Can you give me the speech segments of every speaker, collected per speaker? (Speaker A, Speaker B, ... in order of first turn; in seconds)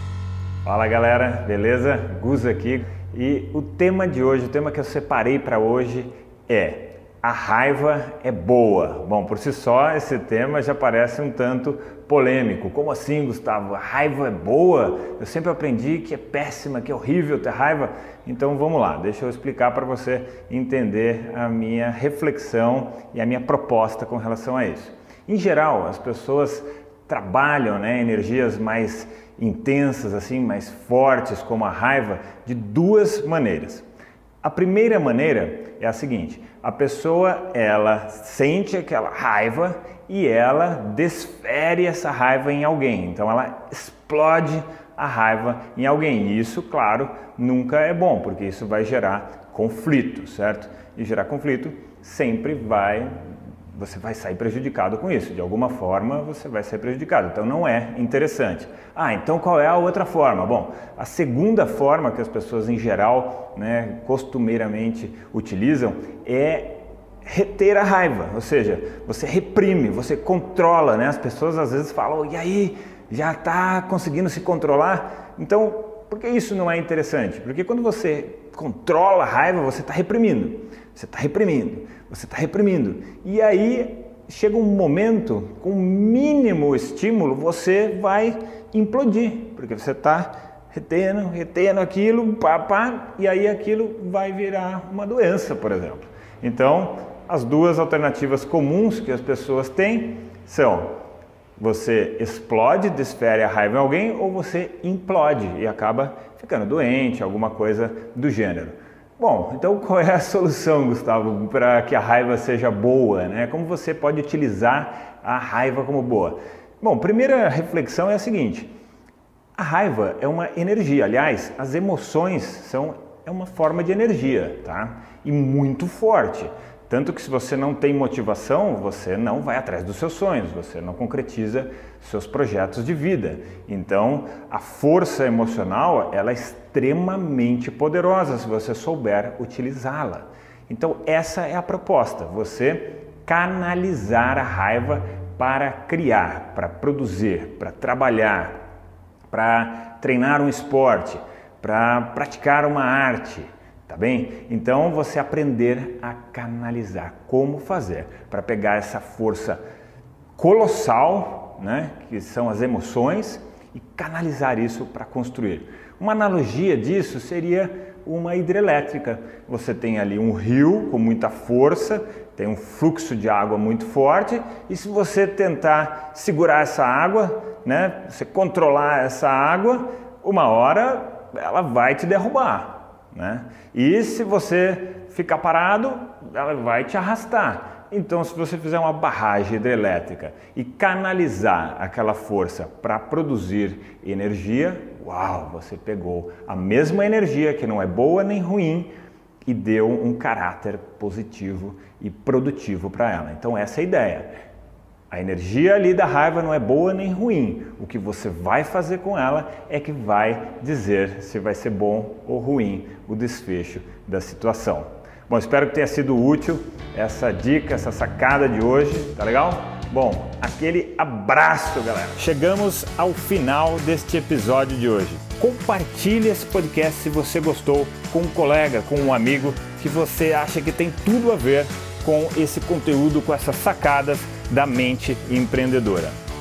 Speaker A: 0.6-33.8, 34.4-101.0, 101.6-118.7, 119.5-148.6, 149.3-159.6, 160.3-198.9, 199.4-204.3, 205.1-236.2